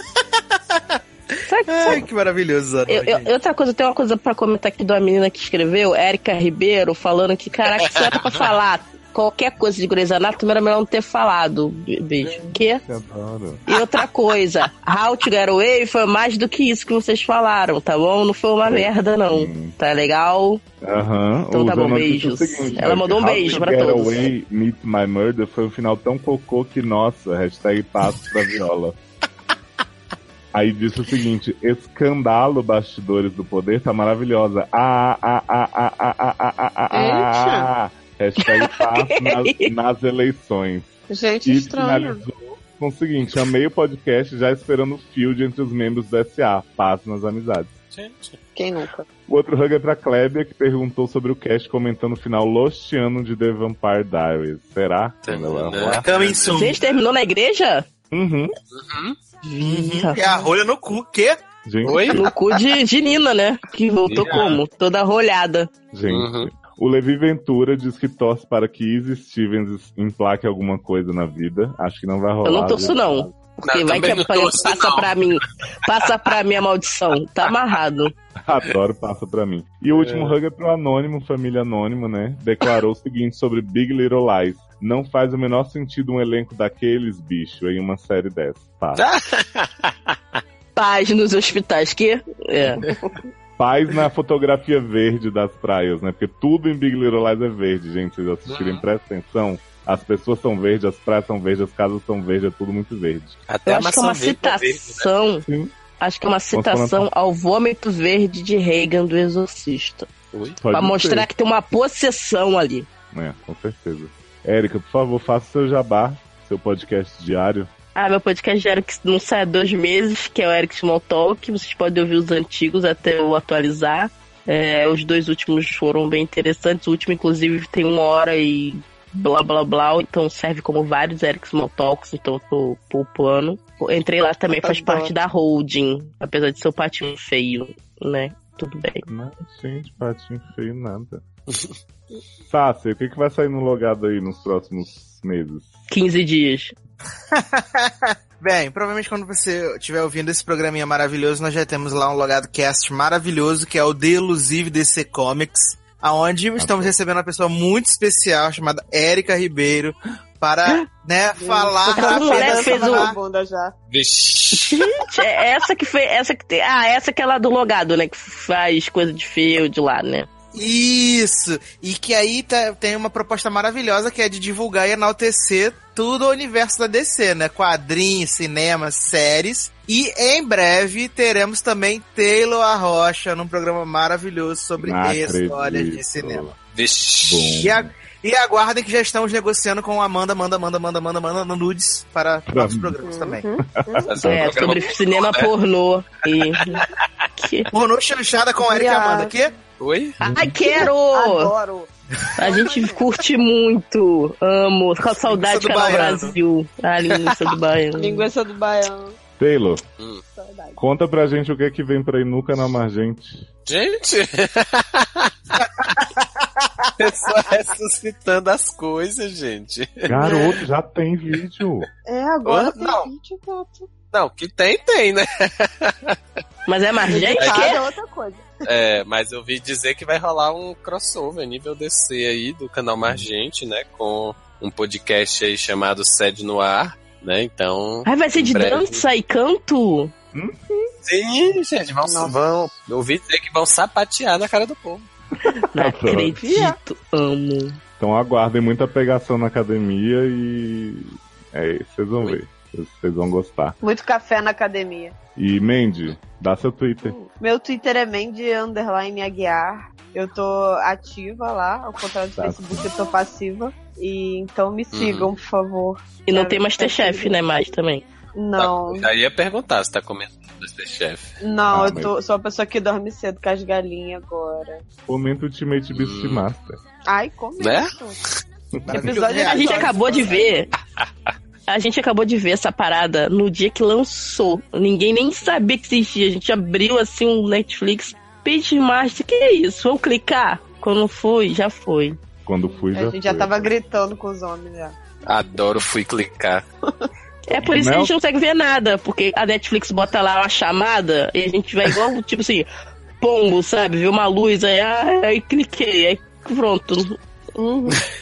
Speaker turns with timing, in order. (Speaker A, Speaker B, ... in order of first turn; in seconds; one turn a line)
Speaker A: 1.5-2.0
Speaker B: 1.7-3.3
Speaker A: 2.9-12.8
Speaker C: 12.2-13.6
Speaker A: 13.7-20.6
Speaker C: 18.6-19.7
Speaker C: 20.8-28.9
Speaker A: 21.5-24.1
Speaker C: 30.5-40.9
Speaker D: 36.9-37.7
Speaker A: 38.4-39.7
Speaker D: 41.1-42.2
Speaker C: 41.4-47.7
Speaker E: 47.9-48.4
Speaker D: 48.5-49.0
Speaker C: 49.3-56.0
Speaker E: 55.3-57.0
Speaker B: 56.0-56.8
Speaker A: 56.6-57.9
Speaker C: 58.1-58.5
Speaker E: 58.7-59.1
Speaker A: 59.4-60.2
Speaker B: 59.6-61.4
Speaker C: 61.6-62.3
Speaker E: 61.9-62.2
Speaker A: 62.1-65.7
Speaker E: 64.1-64.6
Speaker B: 64.2-64.6
Speaker C: 65.9-73.3
Speaker E: 66.1-66.5
Speaker A: 72.4-78.1
Speaker E: 73.6-75.2
Speaker C: 78.4-89.0
Speaker E: 79.9-80.3
Speaker E: 89.0-90.4
Speaker A: 90.8-92.8
Speaker C: 93.6-103.4
Speaker E: 98.5-98.8
Speaker E: 103.5-105.1
Speaker A: 103.7-105.5
Speaker C: 105.5-105.7
Speaker A: 106.0-110.1
Speaker C: 106.5-107.1
Speaker E: 110.3-110.6
Speaker C: 110.6-111.3
Speaker A: 110.7-112.9
Speaker C: 113.1-117.7
Speaker A: 117.9-139.0
Speaker D: 134.5-135.1
Speaker C: 139.0-141.2
Speaker C: 142.5-145.7
Speaker A: 145.9-146.7
Speaker B: 147.3-163.2
Speaker C: 156.6-156.9
Speaker D: 161.4-163.7
Speaker A: 161.9-163.1
Speaker E: 163.9-164.9
Speaker A: 164.5-170.3
Speaker B: 170.5-186.5
Speaker C: 184.8-186.6
Speaker E: 186.7-187.6
Speaker C: 187.2-187.9
Speaker B: 187.6-193.5
Speaker C: 192.5-192.9
Speaker D: 193.0-194.1
Speaker C: 193.7-194.5
Speaker E: 194.1-195.5
Speaker A: 194.2-196.8
Speaker E: 196.5-197.0
Speaker A: 197.4-197.7
Speaker B: 197.7-199.5
Speaker D: 198.6-199.3
Speaker E: 199.8-200.2
Speaker A: 200.2-201.5
Speaker D: 200.3-203.1
Speaker A: 202.4-208.3
Speaker B: 205.2-206.3
Speaker D: 207.9-209.2
Speaker C: 209.4-209.8
Speaker D: 210.3-210.8
Speaker C: 210.8-213.5
Speaker E: 213.7-215.3
Speaker E: 217.0-220.4
Speaker C: 220.1-221.9
Speaker D: 220.2-220.6
Speaker D: 222.1-223.9
Speaker E: 222.4-222.8
Speaker B: 222.8-223.1
Speaker E: 224.1-226.2
Speaker A: 226.7-227.8
Speaker D: 227.1-228.5
Speaker E: 227.3-227.8
Speaker E: 228.6-239.0
Speaker A: 238.1-240.1
Speaker C: 240.3-240.6
Speaker E: 241.0-245.1
Speaker D: 242.0-242.4
Speaker A: 245.7-247.8
Speaker C: 245.8-246.4
Speaker D: 246.4-246.8
Speaker C: 248.0-253.8
Speaker D: 253.8-255.1
Speaker C: 255.3-257.1
Speaker D: 257.0-267.4
Speaker C: 262.4-262.9
Speaker E: 264.9-265.3
Speaker A: 266.2-268.0
Speaker D: 268.3-269.1
Speaker E: 268.6-271.4
Speaker D: 271.4-274.8
Speaker C: 271.7-272.1
Speaker C: 275.1-276.8
Speaker E: 275.9-276.5
Speaker D: 277.1-278.2
Speaker E: 277.6-277.9
Speaker C: 278.8-279.1
Speaker B: 278.8-280.6
Speaker D: 278.9-280.7
Speaker A: 279.4-280.7
Speaker A: 281.7-292.2
Speaker C: 292.4-293.6
Speaker D: 292.9-294.9
Speaker E: 295.2-296.6
Speaker A: 297.5-302.7
Speaker C: 297.6-298.1
Speaker A: 303.2-307.2
Speaker D: 307.6-308.0